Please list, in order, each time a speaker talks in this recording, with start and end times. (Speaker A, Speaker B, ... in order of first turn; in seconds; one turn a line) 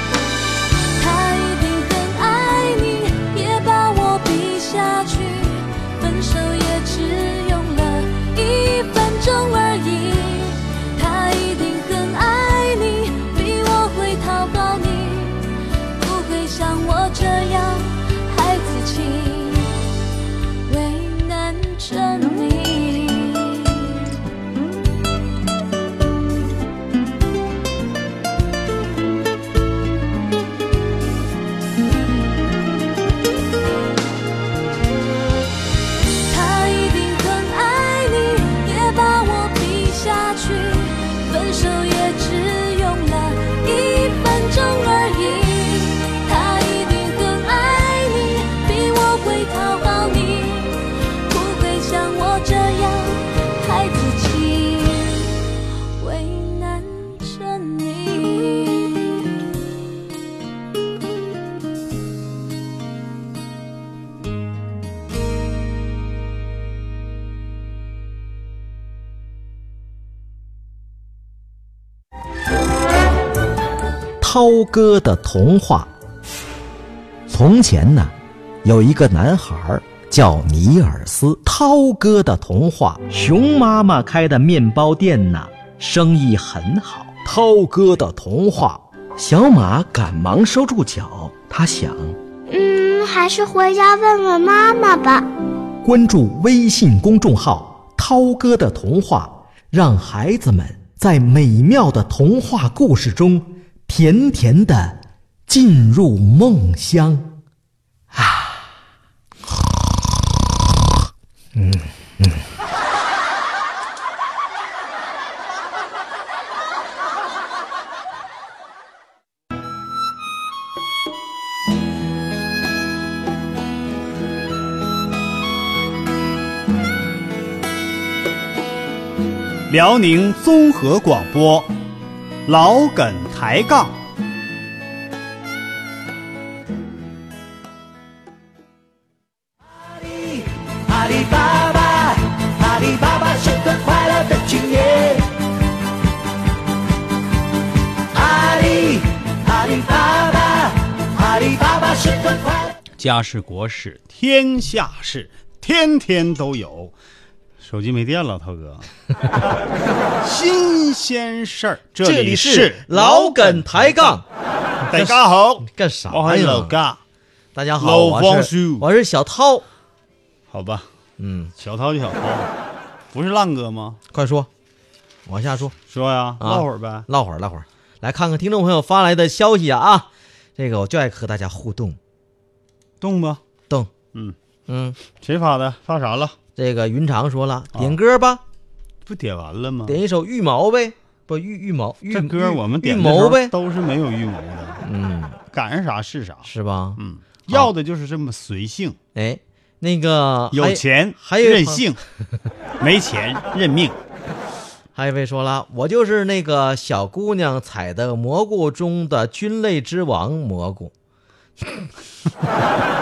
Speaker A: 1.0-19.7
Speaker A: 20.7-24.0
Speaker A: 36.3-55.3
Speaker A: 56.0-59.2
Speaker B: 74.2-75.9
Speaker B: 77.3-92.2
Speaker C: 92.5-95.3
Speaker B: 95.8-107.4
Speaker B: 108.1-108.6
Speaker B: 111.5-112.5
Speaker D: 129.7-131.7
Speaker D: 132.5-134.0
Speaker E: 139.9-145.3
Speaker E: 148.1-152.7
Speaker D: 153.0-156.9
Speaker D: 157.6-158.9
Speaker D: 160.2-164.2
Speaker B: 162.0-164.2
Speaker B: 164.8-166.8
Speaker D: 164.9-167.0
Speaker B: 167.6-169.7
Speaker D: 167.8-168.9
Speaker D: 170.5-170.9
Speaker B: 171.2-171.5
Speaker D: 171.6-172.5
Speaker D: 173.1-174.0
Speaker B: 174.1-174.5
Speaker B: 175.3-175.8
Speaker D: 175.9-177.1
Speaker B: 176.4-182.0
Speaker D: 183.0-183.4
Speaker B: 184.7-185.0
Speaker D: 185.1-186.4
Speaker B: 186.6-188.4
Speaker D: 189.1-190.0
Speaker B: 189.8-193.5
Speaker D: 192.1-194.8
Speaker B: 194.8-195.4
Speaker D: 195.5-199.0
Speaker B: 196.4-197.7
Speaker B: 199.2-201.9
Speaker D: 200.5-202.0
Speaker D: 202.8-204.0
Speaker B: 204.9-210.9